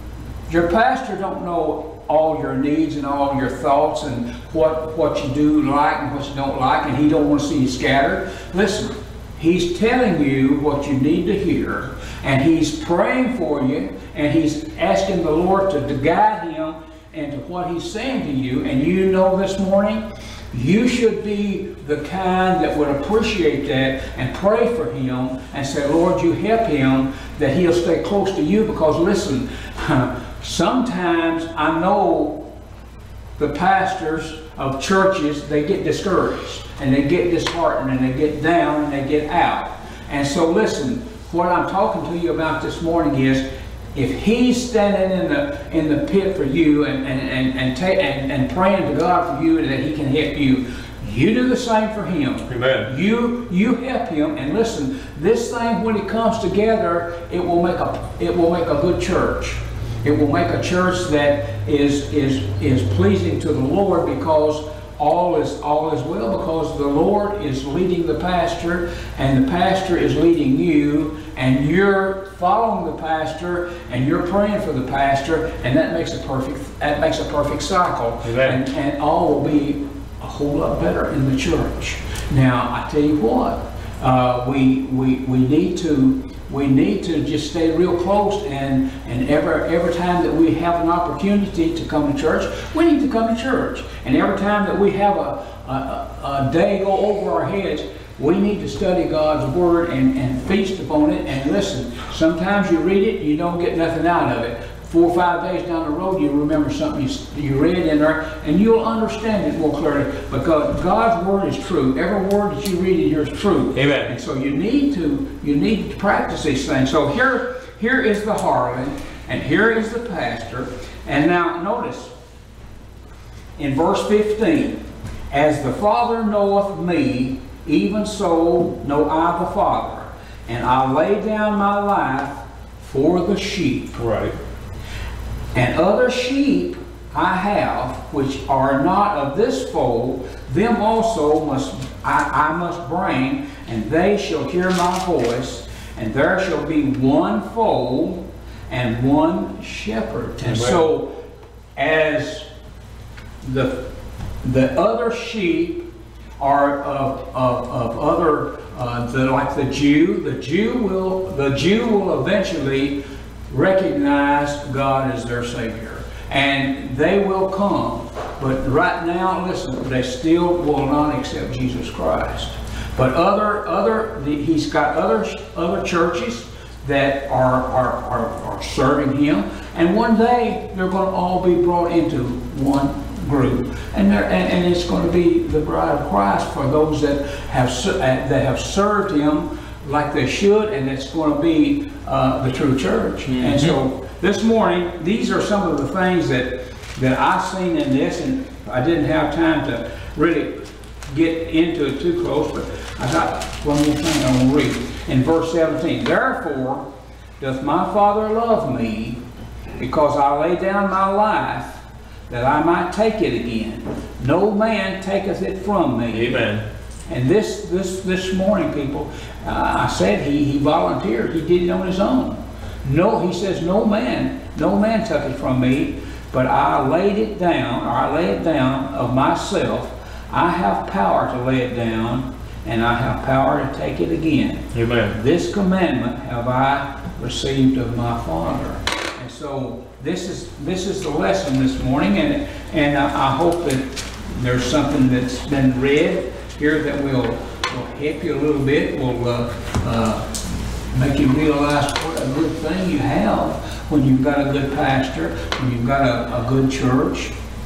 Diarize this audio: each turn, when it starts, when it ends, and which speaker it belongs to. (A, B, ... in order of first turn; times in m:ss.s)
0:00.5-0:32.4 A
0:33.4-0:43.4 A
0:43.9-2:02.1 A
0:52.5-0:52.9 B
1:18.2-1:18.6 B
1:53.7-1:54.1 B
2:03.6-2:04.8 A
2:05.3-2:14.0 A
2:13.9-2:14.3 B
2:15.5-2:31.1 A
2:30.4-2:30.8 B
2:31.8-2:32.4 A
2:33.4-2:33.8 A
2:34.4-2:35.8 A
2:36.4-2:43.0 A
2:43.5-3:20.5 A
3:13.2-3:13.7 B
3:21.1-3:26.8 A
3:27.4-3:29.2 A
3:29.8-3:36.5 A
3:36.1-3:36.6 B
3:37.1-4:10.2 A
3:54.7-3:55.1 B
4:10.9-4:17.3 A